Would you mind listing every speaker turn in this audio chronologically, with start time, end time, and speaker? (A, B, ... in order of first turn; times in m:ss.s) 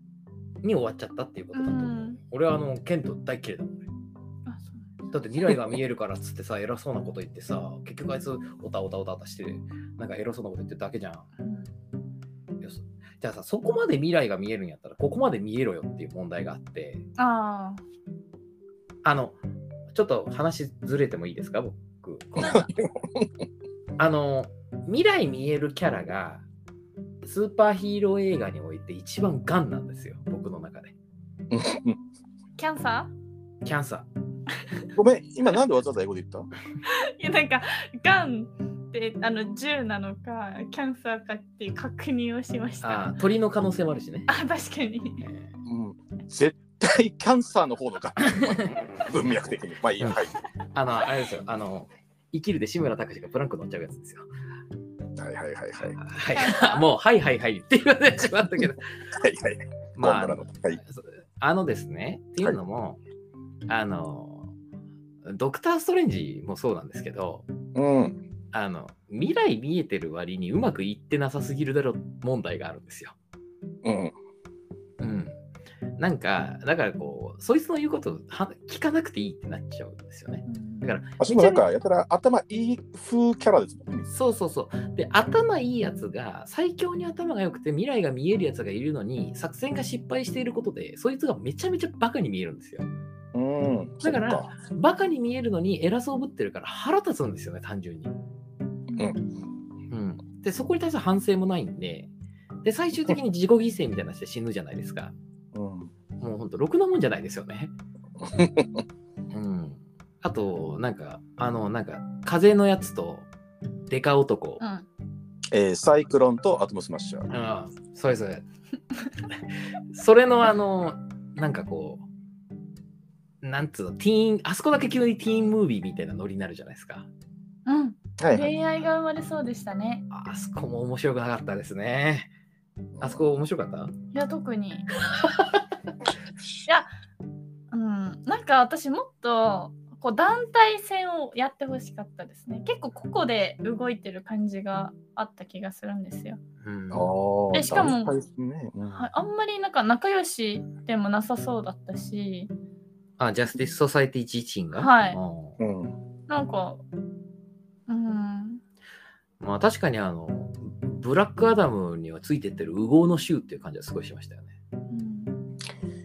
0:00.6-0:03.9 A
0:01.5-0:02.2 B
0:04.5-0:04.9 B
0:05.1-0:11.3 A
0:12.6-0:17.0 A
0:17.2-0:17.8 B
0:19.0-0:19.4 A
0:19.9-0:22.7 A
0:22.4-0:23.3 C
0:24.0-0:26.4 A
0:27.2-0:31.0 A
0:31.5-0:32.0 C
0:32.6-0:33.1 B
0:33.6-0:34.1 A
0:34.9-0:36.5 C
0:36.8-0:43.2 B
0:42.8-0:44.3 A
0:44.3-0:45.2 B
0:45.2-0:45.5 A
0:45.6-0:50.4 C
0:50.0-0:54.3 A
0:55.2-0:56.0 C
0:56.0-0:58.9 A
0:56.3-0:56.9 B
0:59.1-1:00.8 C
1:00.0-1:03.0 A
1:03.7-1:04.5 A
1:05.2-1:07.5 A
1:07.8-1:08.2 C
1:08.5-1:13.2 A
1:13.8-1:14.1 C
1:15.0-1:15.4 A
1:16.0-1:21.2 A
1:20.5-1:21.6 B
1:21.2-1:24.1 C
1:24.1-1:32.9 A
1:33.3-1:34.5 C
1:34.0-1:38.2 A
1:38.9-1:39.2 B
1:39.9-1:42.1 A
1:42.6-1:45.1 A
1:45.5-1:45.9 C
1:46.2-1:47.7 A
1:48.2-1:48.8 C
1:49.3-1:53.3 A
1:53.9-1:54.6 A
1:54.6-1:54.9 B
1:55.5-1:57.3 C
1:57.3-1:58.4 A
1:59.9-2:02.0 A
2:03.4-2:07.1 A
2:07.7-2:10.1 B
2:08.2-2:08.5 C
2:10.1-2:12.3 A
2:13.0-2:13.2 C
2:13.0-2:13.9 A
2:14.1-2:14.9 B
2:17.7-2:26.4 B
2:26.6-2:27.1 A
2:26.9-2:29.1 C
2:27.5-2:28.2 B
2:28.9-2:32.5 B
2:33.2-2:35.6 A
2:34.8-2:35.2 B
2:35.6-2:36.0 C
2:36.3-2:36.8 B
2:37.9-2:38.6 B
2:39.4-2:44.5 A
2:44.9-2:45.4 B